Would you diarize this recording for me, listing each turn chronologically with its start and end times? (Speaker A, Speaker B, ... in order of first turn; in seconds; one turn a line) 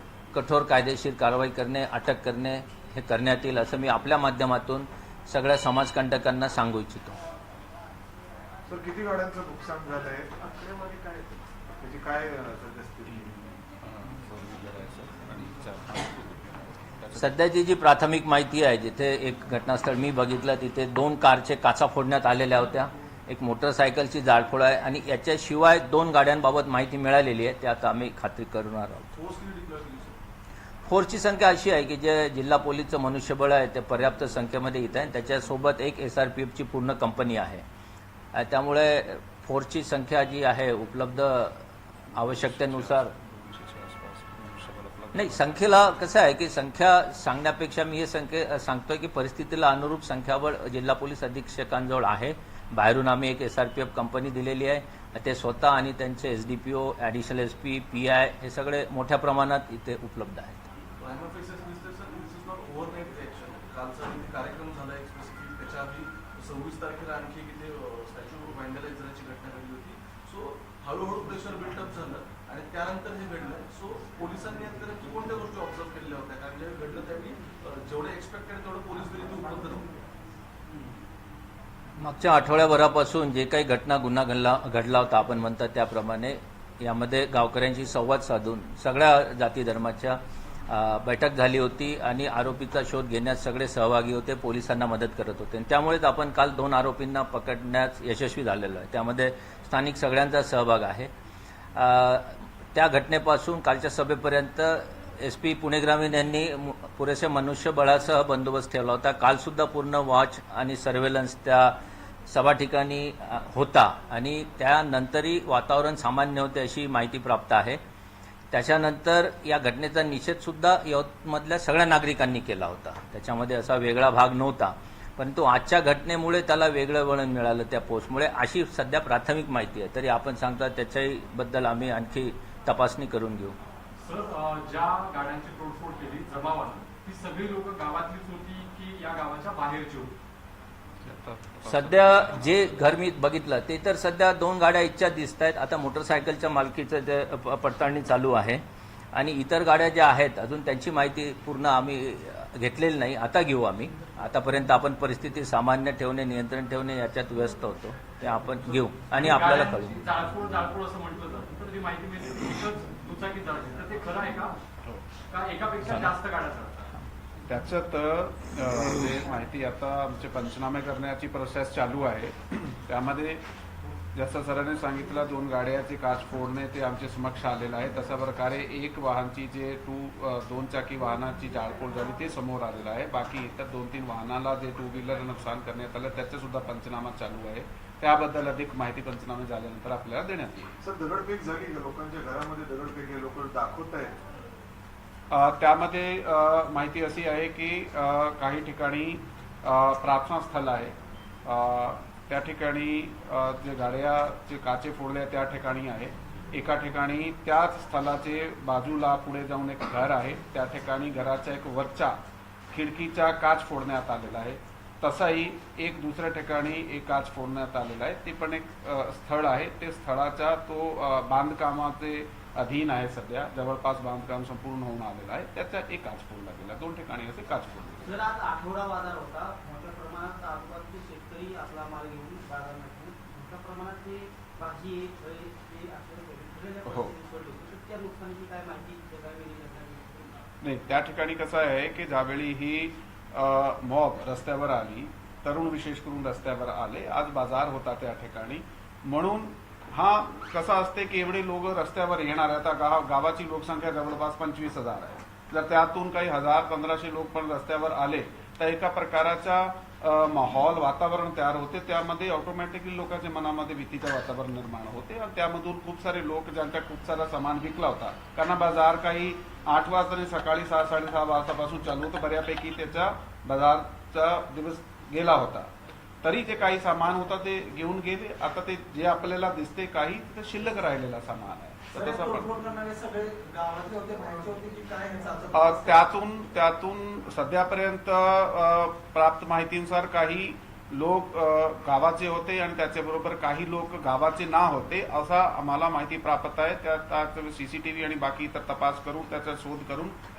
Speaker A: 0.3-7.2
Speaker B: 8.7-13.3
Speaker C: 13.4-17.3
Speaker A: 17.2-29.1
Speaker D: 29.1-30.2
Speaker A: 30.9-37.6
Speaker A: 38.3-43.1
Speaker C: 42.3-45.6
Speaker A: 45.1-60.7
Speaker D: 61.0-79.9
Speaker A: 82.0-101.1
Speaker A: 101.8-111.8
Speaker A: 112.3-117.8
Speaker A: 118.5-133.6
Speaker E: 134.0-140.1
Speaker C: 141.0-142.4
Speaker A: 141.7-160.0
Speaker E: 159.1-164.6
Speaker E: 165.3-166.9
Speaker A: 165.9-166.1
Speaker C: 167.5-173.4
Speaker C: 174.2-190.7
Speaker B: 190.8-194.2
Speaker C: 195.3-212.2
Speaker C: 212.7-228.1
Speaker F: 228.0-240.4
Speaker C: 236.9-237.1
Speaker C: 240.6-275.7
Speaker C: 276.2-282.5
Speaker F: 281.9-286.0
Speaker C: 285.5-300.1